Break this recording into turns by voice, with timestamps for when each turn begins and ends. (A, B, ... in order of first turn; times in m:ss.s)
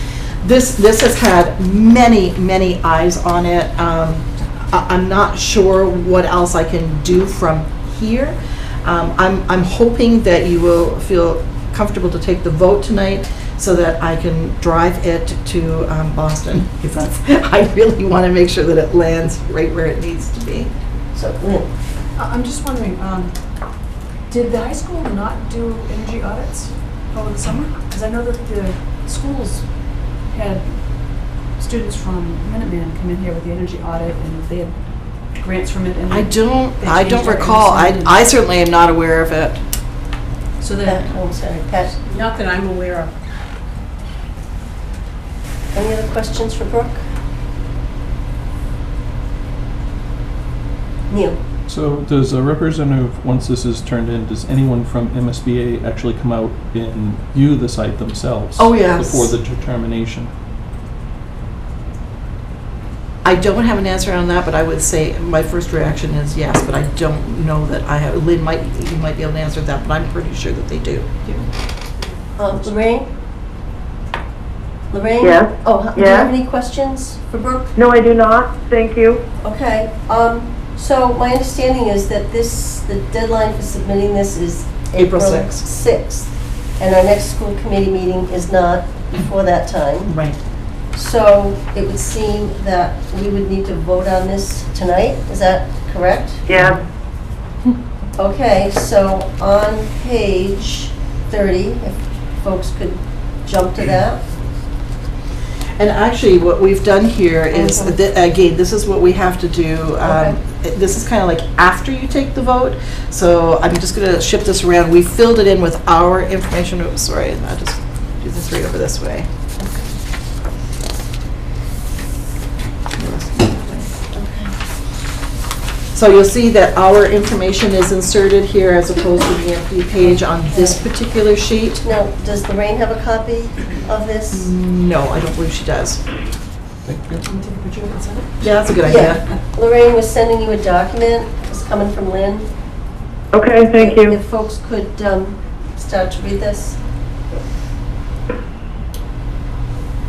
0:00.4-0:20.7 A
0:21.2-0:21.7 B
0:22.2-0:23.3 C
0:24.3-0:29.6 C
0:30.3-0:34.8 C
0:35.4-0:38.2 C
0:36.1-0:39.6 A
0:40.6-0:41.1 C
0:40.8-0:41.9 B
0:41.9-0:43.1 C
0:45.7-0:47.0 B
0:51.1-0:51.4 B
0:51.7-1:00.3 D
0:58.6-0:59.3 A
1:03.2-1:11.1 A
1:12.4-1:13.1 B
1:14.9-1:17.7 B
1:15.2-1:16.3 E
1:17.8-1:19.2 E
1:19.4-1:30.1 B
1:25.0-1:25.6 A
1:30.1-1:30.4 A
1:31.0-1:36.4 B
1:36.6-1:36.8 A
1:38.2-1:44.2 B
1:45.8-1:59.3 A
1:47.6-1:47.9 B
2:03.0-2:03.9 A
2:04.2-2:04.5 B
2:05.9-2:11.8 A
2:11.9-2:14.5 B
2:14.3-2:16.0 A
2:16.8-2:17.2 D
2:17.2-2:18.4 C
2:18.4-2:19.2 A
2:18.9-2:22.5 B
2:23.3-2:24.2 E
2:23.8-2:26.8 B